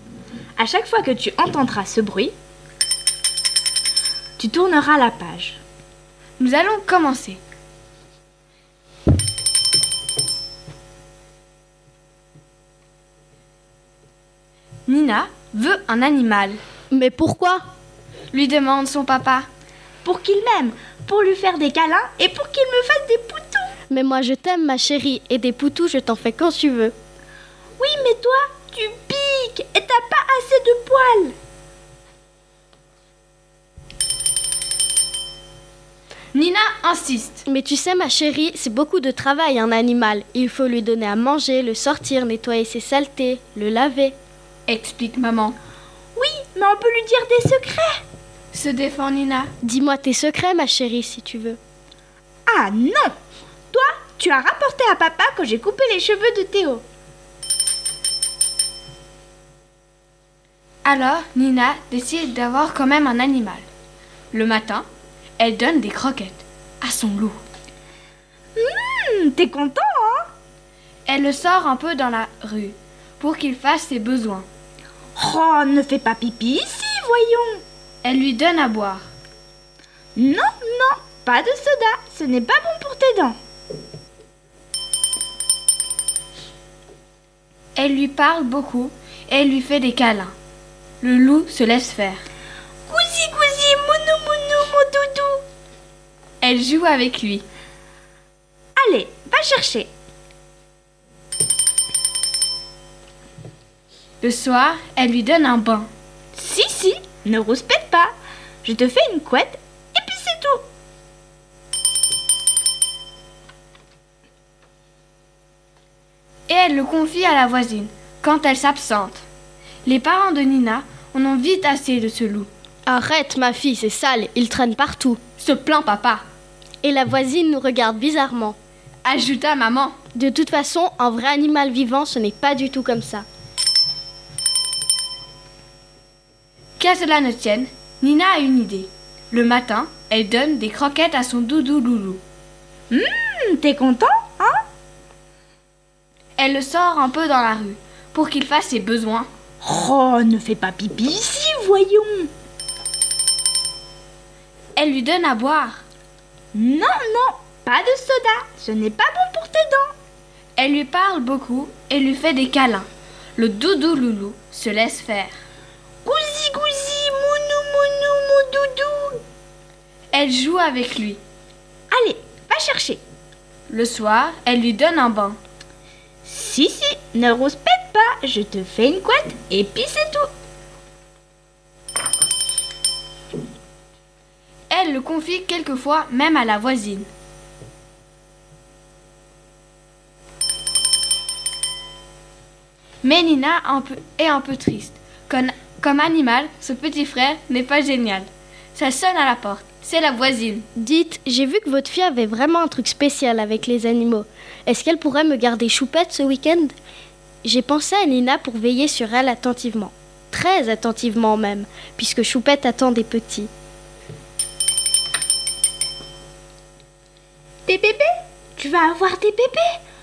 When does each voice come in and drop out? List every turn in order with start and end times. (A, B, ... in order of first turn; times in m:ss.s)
0:00.6-0:02.3 A
0:04.4-0:05.6 A
0:06.4-0:07.4 B
0:14.9-0:16.6 B
0:16.9-0:17.6 C
0:18.3-0:19.5 B
0:20.0-0:23.7 A
0:23.9-0:27.0 C
0:27.8-0:31.4 A
0:36.3-0:37.4 B
0:37.5-0:44.2 C
0:44.7-0:45.6 B
0:46.2-0:48.0 A
0:48.5-0:49.5 B
0:49.6-0:51.6 C
0:52.5-0:53.1 A
0:53.7-0:56.8 A
1:00.8-1:03.6 B
1:04.3-1:04.8 B
1:05.4-1:07.4 B
1:08.6-1:10.3 A
1:11.1-1:14.5 B
1:15.2-1:17.6 A
1:18.0-1:19.1 B
1:20.2-1:23.4 A
1:27.8-1:30.3 B
1:31.0-1:32.2 B
1:32.9-1:35.4 A
1:36.4-1:37.4 B
1:38.8-1:39.9 A
1:44.2-1:45.9 B
1:46.4-1:48.1 A
1:48.6-1:50.6 A
1:56.5-1:59.2 B
1:59.9-2:02.5 B
2:02.9-2:05.2 C
2:05.4-2:06.2 B
2:06.8-2:08.6 C
2:09.0-2:10.0 B
2:10.2-2:13.3 C
2:16.8-2:22.2 B
2:22.9-2:24.6 A
2:26.4-2:29.3 B
2:29.6-2:32.3 A
2:34.8-2:35.8 B
2:36.5-2:39.9 A
2:40.6-2:45.4 B
2:46.0-2:49.2 A
2:50.1-2:51.2 B
2:51.9-2:53.0 A
2:53.7-2:55.4 B
2:56.2-3:00.3 A
3:04.7-3:07.1 B
3:13.0-3:20.7 B
3:20.8-3:26.8 C
3:27.4-3:33.5 C
3:37.7-3:39.7 A